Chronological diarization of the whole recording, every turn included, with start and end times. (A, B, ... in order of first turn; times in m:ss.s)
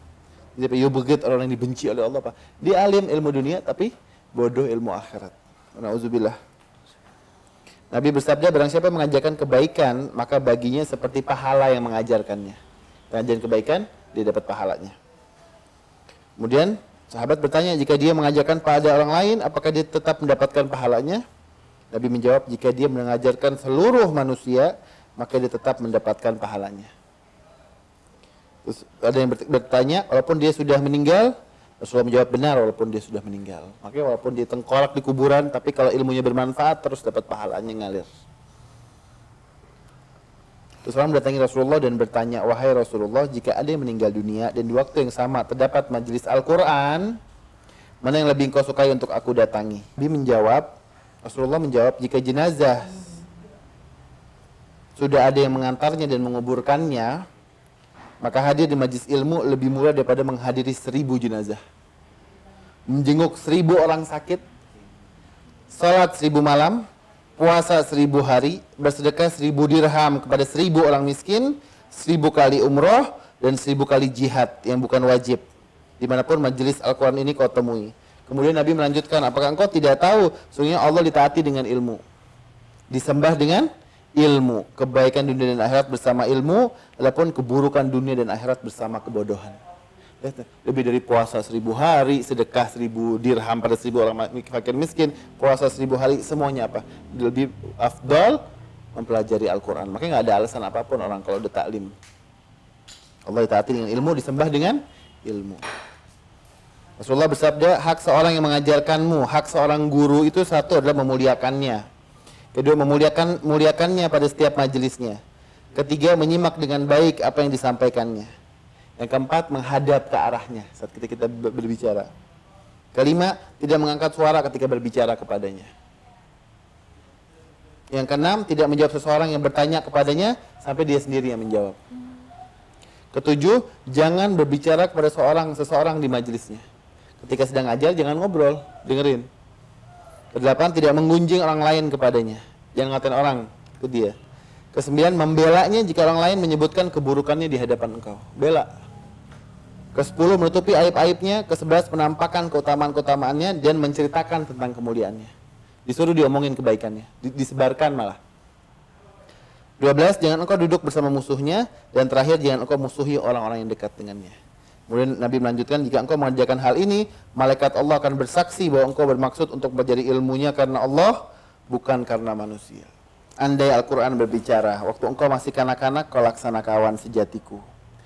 0:00.6-0:06.4 A
0:07.9-0:12.6 A
0:13.1-0:15.0 A
0:16.4-0:21.2 A
0:21.9-0:26.9 A
0:28.6-0:38.1 A
0:40.8-0:47.2 A
0:48.0-0:50.7 A
0:51.2-0:53.1 A
0:55.0-0:57.2 A
0:58.2-1:01.6 A
1:02.9-1:04.4 A
1:05.7-1:06.8 A
1:07.4-1:15.4 A
1:16.0-1:22.0 A
1:22.9-1:29.6 A
1:30.2-1:38.4 A
1:38.9-1:41.9 A
1:43.3-1:45.7 A
1:47.0-1:51.8 A
1:52.5-1:55.2 A
1:55.7-1:58.3 A
1:59.0-2:02.1 A
2:02.9-2:05.7 A
2:07.9-2:11.8 A
2:13.1-2:16.6 A
2:17.2-2:19.3 A
2:20.3-2:24.1 A
2:24.7-2:28.7 A
2:29.9-2:35.3 A
2:35.8-2:38.2 A
2:39.8-2:44.4 A
2:44.9-2:51.2 A
2:51.7-2:52.9 A
2:53.4-2:57.6 A